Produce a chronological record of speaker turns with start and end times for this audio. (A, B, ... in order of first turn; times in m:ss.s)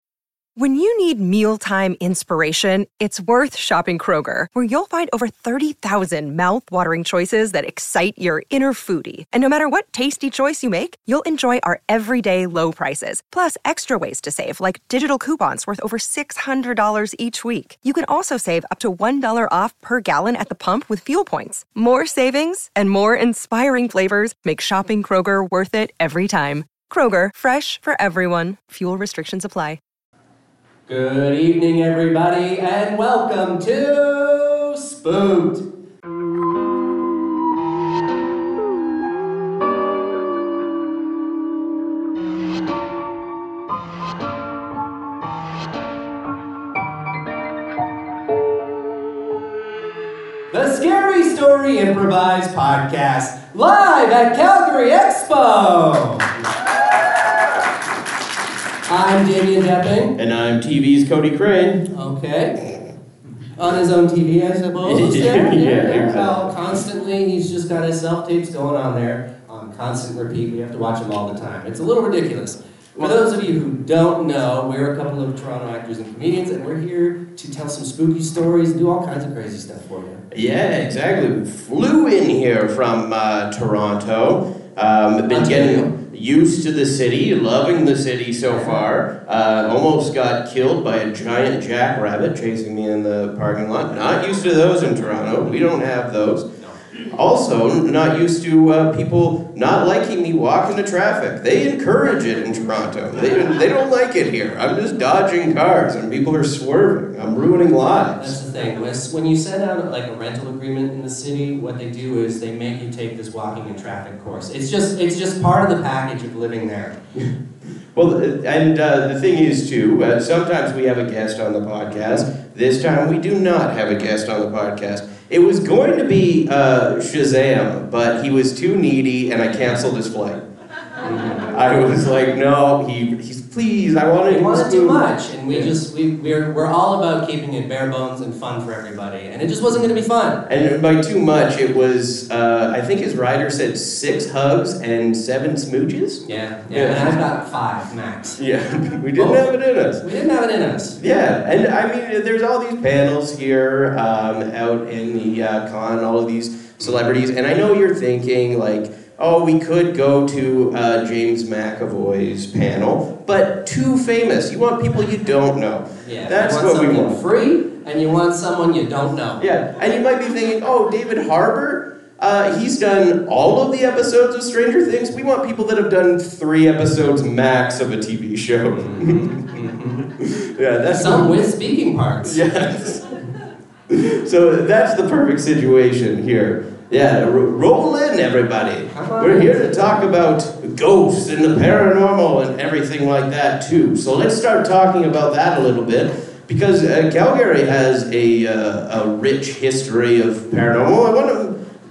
0:00.6-0:29.8 A
0:30.9-0:35.6 B
0:50.5-0:56.3 B
0:58.9-1:00.2 B
1:00.2-1:01.8 C
1:01.9-1:02.6 B
1:03.6-1:20.2 B
1:04.8-1:06.5 C
1:20.3-1:36.5 C
1:25.3-1:25.9 B
1:28.5-1:28.8 B
1:37.1-1:48.4 C
1:48.2-1:57.0 B
1:57.9-2:10.4 C
2:11.0-2:11.5 B
2:11.4-2:15.7 C
2:14.3-2:20.4 B
2:20.4-2:27.1 C
2:26.2-2:28.4 B
2:28.4-2:30.0 C
2:29.2-2:29.4 B
2:30.0-2:31.0 B
2:31.0-2:47.2 C
2:46.0-2:49.4 B
2:49.4-2:59.4 C
2:58.7-3:00.1 B
3:00.2-3:01.4 C
3:00.9-3:02.4 B
3:02.2-3:03.1 C
3:03.9-3:21.6 C
3:08.9-3:10.0 B